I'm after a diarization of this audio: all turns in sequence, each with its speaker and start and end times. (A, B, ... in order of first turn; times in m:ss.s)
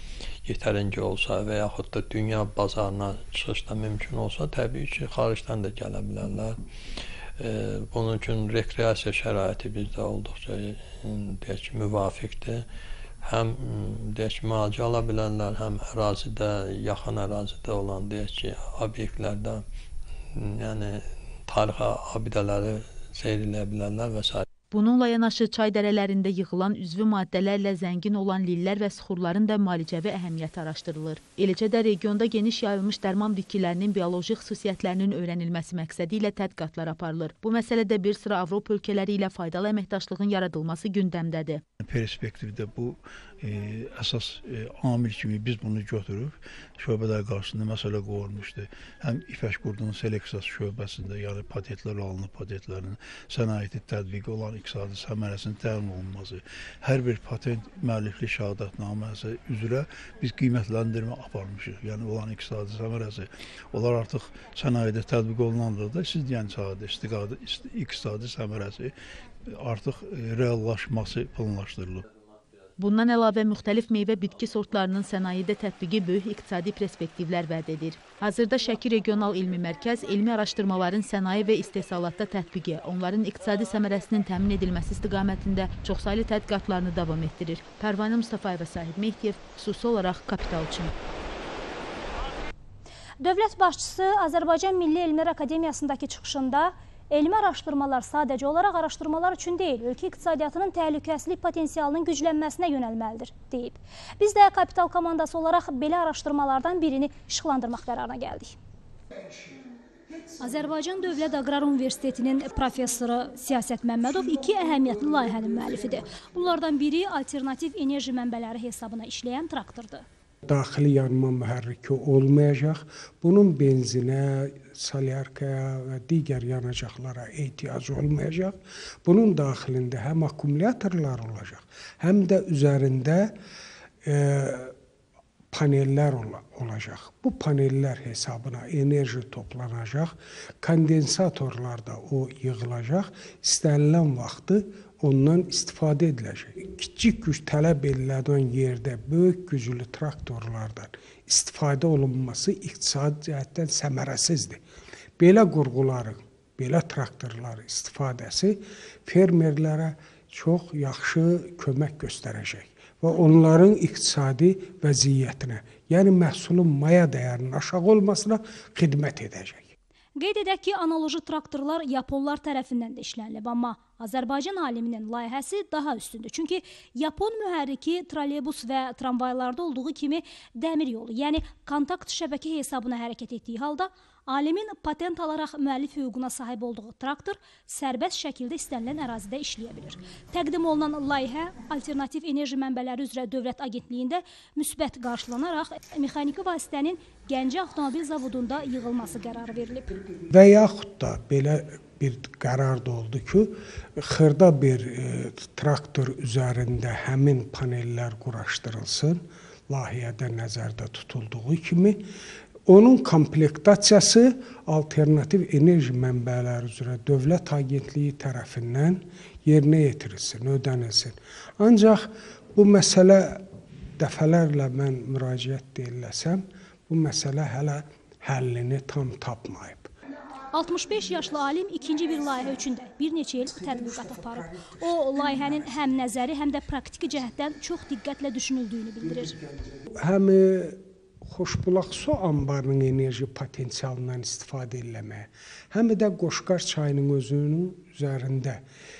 0:00.4-0:12.6 A
0:13.2-0:19.6 A
0:20.3-0:24.4 A
0:24.7-0:41.6 B
0:41.8-1:08.9 C
1:09.4-1:12.1 C
1:12.8-1:30.9 B
1:33.2-1:48.6 D
1:50.4-2:00.0 D
2:00.4-2:13.3 E
2:14.0-2:14.7 E
2:15.5-2:34.6 E
2:35.2-2:49.7 E
2:50.2-3:20.0 D
3:20.3-3:32.0 E
3:32.7-3:43.5 E
3:44.0-3:49.9 E
3:50.5-3:59.4 D
3:59.9-4:08.6 E